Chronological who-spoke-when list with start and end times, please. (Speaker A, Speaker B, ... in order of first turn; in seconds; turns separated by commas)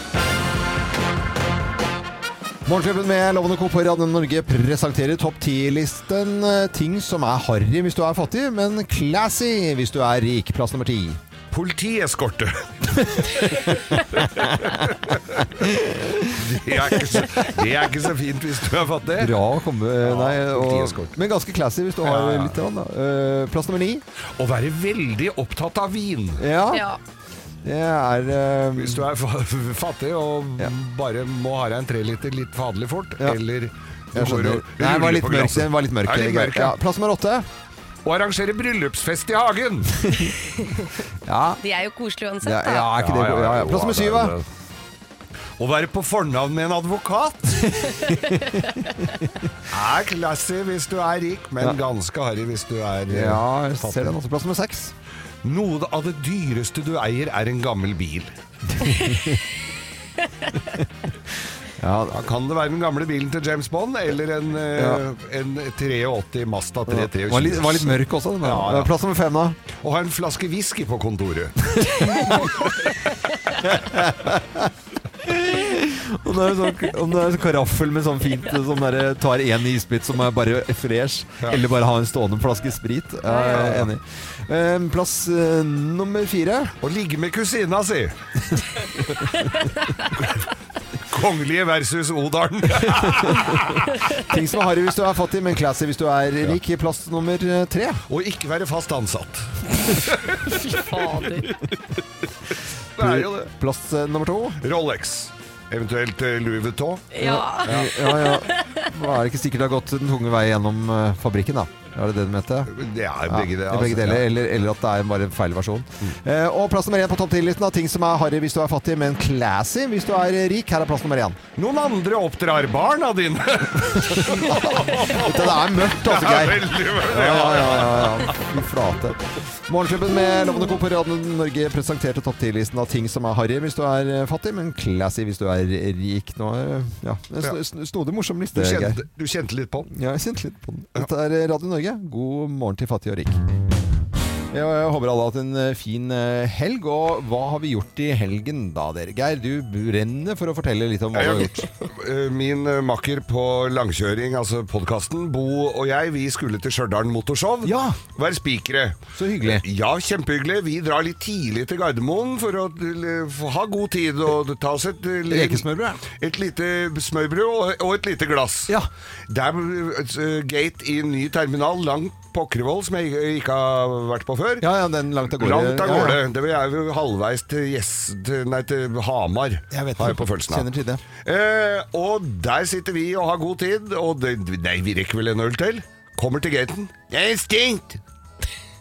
Speaker A: 2.7-11.2, Speaker B: 11.5-15.6, Speaker A: 13.2-14.8, Speaker A: 15.6-17.5, Speaker B: 16.3-19.4, Speaker A: 19.2-24.0, Speaker B: 20.0-21.2, Speaker B: 22.0-22.6, Speaker B: 24.4-26.4, Speaker A: 26.4-26.9, Speaker C: 26.7-27.0, Speaker A: 27.6-29.1, Speaker B: 28.8-36.8, Speaker A: 34.1-37.5, Speaker B: 38.0-40.3, Speaker A: 41.2-41.6, Speaker C: 41.6-42.9, Speaker A: 42.4-44.4, Speaker B: 43.0-44.5, Speaker B: 45.6-47.8, Speaker A: 47.7-49.3, Speaker C: 48.0-49.1, Speaker B: 49.7-54.1, Speaker A: 53.1-54.9, Speaker B: 55.4-58.3, Speaker A: 58.7-59.4, Speaker A: 61.8-62.2, Speaker B: 62.1-68.9, Speaker A: 64.8-65.0, Speaker A: 66.9-69.6, Speaker B: 69.8-72.9, Speaker A: 71.8-72.7, Speaker A: 73.5-86.8, Speaker B: 83.5-83.9, Speaker B: 86.8-88.2, Speaker B: 90.1-90.5, Speaker B: 91.1-94.1, Speaker A: 93.0-93.6, Speaker A: 94.2-98.0, Speaker B: 98.1-101.0, Speaker C: 100.6-101.6, Speaker B: 103.0-103.5, Speaker A: 103.0-104.6, Speaker B: 104.6-108.1, Speaker C: 107.1-108.9, Speaker A: 107.2-112.7, Speaker B: 112.7-114.3, Speaker A: 113.3-121.4, Speaker B: 121.6-128.5, Speaker A: 124.0-139.1, Speaker B: 138.5-139.9, Speaker A: 139.9-143.4, Speaker A: 144.5-151.7, Speaker B: 151.1-168.8, Speaker A: 157.6-158.0, Speaker A: 159.2-159.7, Speaker A: 165.3-166.0, Speaker B: 169.3-174.7, Speaker A: 174.6-176.2, Speaker B: 175.3-180.7, Speaker A: 179.7-181.0, Speaker B: 181.2-188.0